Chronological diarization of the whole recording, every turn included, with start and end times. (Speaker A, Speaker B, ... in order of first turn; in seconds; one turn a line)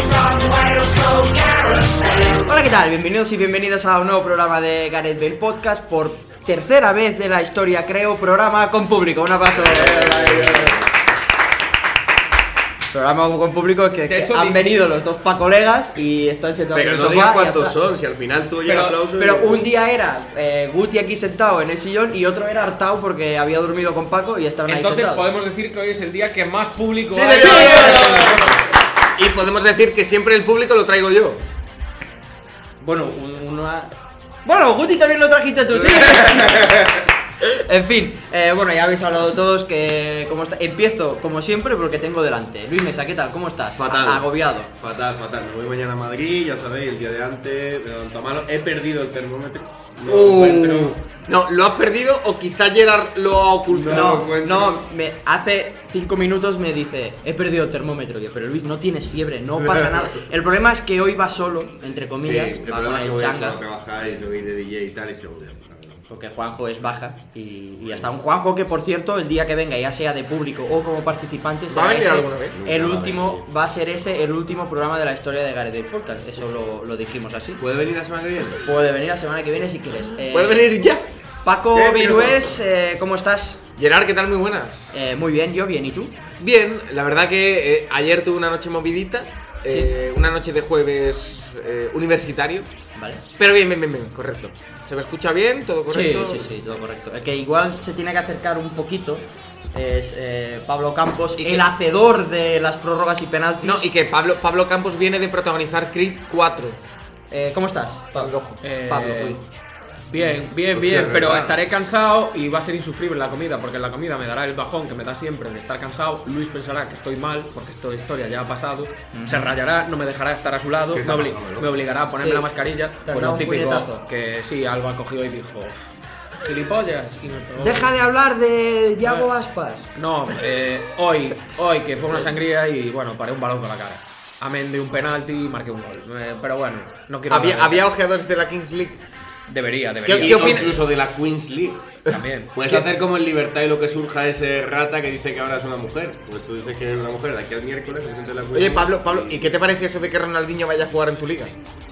Speaker A: 2.3-10.8
Speaker B: 9.5-10.9
Speaker A: 12.9-17.8
Speaker C: 14.1-14.6
Speaker B: 16.7-19.6
Speaker A: 18.7-25.3
Speaker C: 24.7-28.5
Speaker B: 27.1-28.4
Speaker D: 27.4-28.2
Speaker A: 27.5-28.3
Speaker D: 29.2-31.4
Speaker A: 32.8-33.9
Speaker A: 34.5-36.9
Speaker B: 35.8-37.0
Speaker A: 37.4-44.7
Speaker B: 43.8-51.0
Speaker D: 50.0-54.2
Speaker B: 53.7-54.8
Speaker A: 53.9-63.6
Speaker B: 59.6-60.1
Speaker B: 62.2-66.0
Speaker A: 66.1-77.6
Speaker D: 71.7-72.6
Speaker B: 72.5-73.4
Speaker B: 77.6-78.6
Speaker A: 78.7-80.7
Speaker D: 80.3-81.1
Speaker A: 81.5-83.6
Speaker B: 81.7-82.5
Speaker D: 83.8-84.9
Speaker A: 84.9-86.1
Speaker D: 86.4-92.7
Speaker A: 89.7-89.9
Speaker A: 93.0-93.2
Speaker D: 93.4-96.5
Speaker A: 95.9-103.9
Speaker D: 101.4-101.7
Speaker D: 103.6-106.8
Speaker A: 107.3-108.3
Speaker D: 108.2-108.6
Speaker C: 108.6-109.4
Speaker A: 108.9-109.4
Speaker C: 110.1-125.9
Speaker B: 110.7-111.6
Speaker A: 119.1-119.5
Speaker B: 120.9-121.7
Speaker A: 122.2-122.5
Speaker A: 123.0-124.0
Speaker C: 126.4-127.9
Speaker A: 127.6-129.9
Speaker C: 129.0-129.3
Speaker C: 129.9-137.9
Speaker D: 137.3-139.0
Speaker C: 139.5-140.8
Speaker D: 140.1-140.8
Speaker B: 140.2-141.8
Speaker C: 142.1-142.8
Speaker B: 142.5-149.4
Speaker D: 148.5-151.5